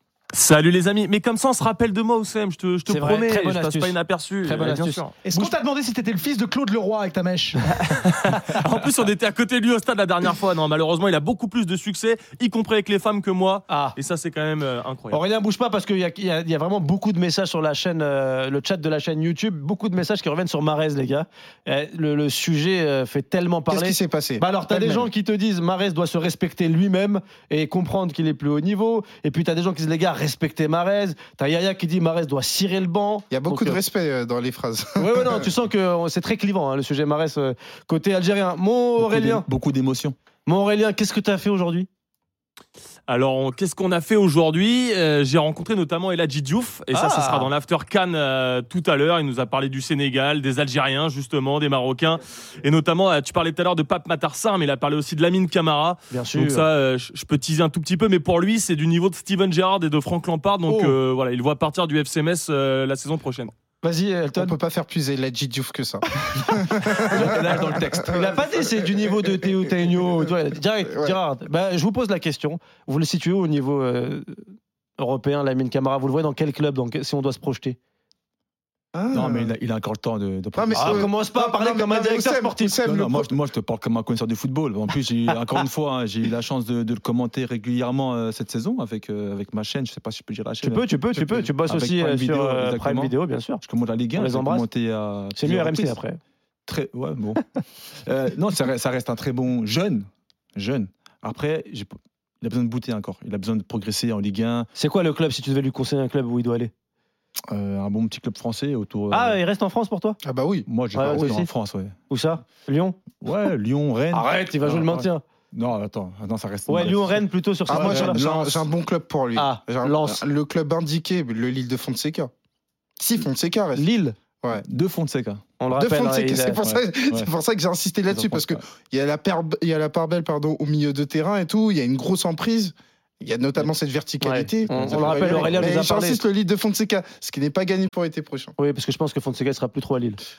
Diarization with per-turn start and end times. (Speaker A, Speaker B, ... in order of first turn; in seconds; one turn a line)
Speaker A: 0.3-5.3
Speaker B: 2.9-5.4
Speaker C: 5.2-8.0
Speaker A: 7.8-15.2
Speaker B: 13.7-13.9
Speaker B: 15.1-33.8
Speaker D: 23.7-25.1
Speaker D: 33.3-35.5
Speaker B: 35.0-39.4
Speaker E: 39.0-40.1
Speaker B: 40.5-41.9
Speaker A: 43.1-63.5
Speaker B: 46.9-47.5
Speaker B: 56.1-56.7
Speaker B: 60.7-61.0
Speaker B: 63.8-64.5
Speaker D: 64.3-68.3
Speaker E: 67.0-68.3
Speaker B: 67.0-74.4
Speaker D: 70.8-71.2
Speaker B: 75.0-77.8
Speaker D: 78.9-79.5
Speaker E: 79.1-81.1
Speaker D: 80.5-83.3
Speaker B: 80.7-82.8
Speaker E: 82.8-96.0
Speaker B: 90.6-93.6
Speaker B: 94.1-94.7
Speaker B: 95.3-96.2
Speaker E: 96.7-104.7
Speaker B: 104.8-106.7
Speaker E: 107.5-109.4
Speaker B: 109.1-110.2
Speaker D: 110.2-111.3
Speaker E: 110.7-112.0
Speaker B: 110.9-111.5
Speaker B: 112.1-113.0
Speaker E: 113.2-118.3
Speaker B: 114.1-115.2
Speaker B: 116.7-118.7
Speaker D: 117.7-122.3
Speaker B: 119.3-120.2
Speaker D: 123.0-123.8
Speaker B: 123.7-124.2
Speaker E: 124.6-125.4
Speaker B: 125.6-126.8
Speaker D: 125.7-138.5
Speaker E: 128.1-128.6
Speaker B: 134.2-136.2
Speaker E: 134.7-135.7
Speaker B: 138.6-140.2